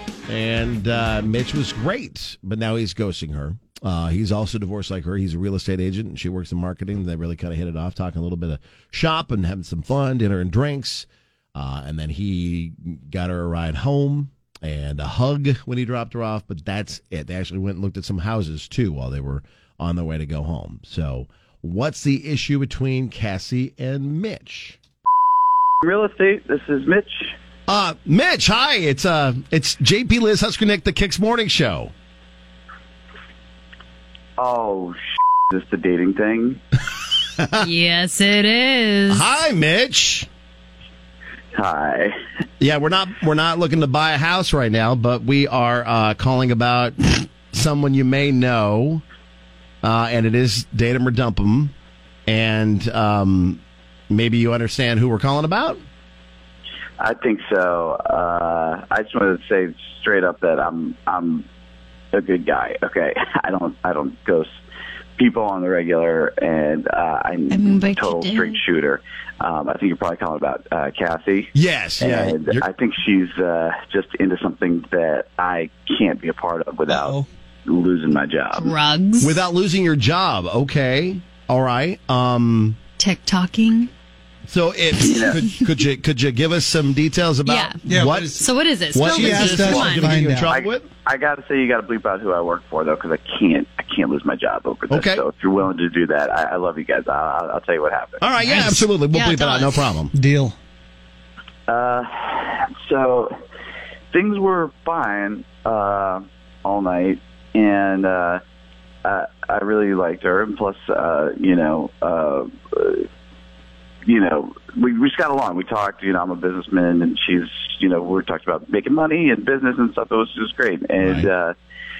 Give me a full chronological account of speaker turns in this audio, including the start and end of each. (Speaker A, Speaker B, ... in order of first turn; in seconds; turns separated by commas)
Speaker A: 0.3-24.8, Speaker B: 25.8-27.3, Speaker A: 27.7-31.9, Speaker B: 34.4-35.0, Speaker B: 35.5-36.6, Speaker C: 37.6-39.3, Speaker A: 39.1-40.3, Speaker B: 41.5-42.1, Speaker A: 42.6-49.0, Speaker A: 49.8-51.7, Speaker A: 52.3-55.8, Speaker B: 57.0-61.4, Speaker B: 62.1-64.5, Speaker B: 65.2-78.7, Speaker C: 67.5-68.6, Speaker A: 71.5-72.7, Speaker D: 76.9-77.3, Speaker C: 78.5-79.4, Speaker A: 79.2-82.8, Speaker C: 83.0-83.9, Speaker A: 84.5-88.4, Speaker C: 85.0-85.6, Speaker B: 85.0-85.4, Speaker C: 87.5-90.1, Speaker D: 87.8-88.4, Speaker A: 88.9-90.8, Speaker D: 89.0-90.5, Speaker B: 90.5-98.2, Speaker A: 94.9-95.2, Speaker A: 98.2-100.1, Speaker D: 98.4-98.9, Speaker C: 98.6-99.9, Speaker D: 100.1-100.5, Speaker B: 101.7-103.3, Speaker B: 104.1-108.4, Speaker B: 109.0-113.1, Speaker B: 114.1-121.5, Speaker A: 121.0-121.3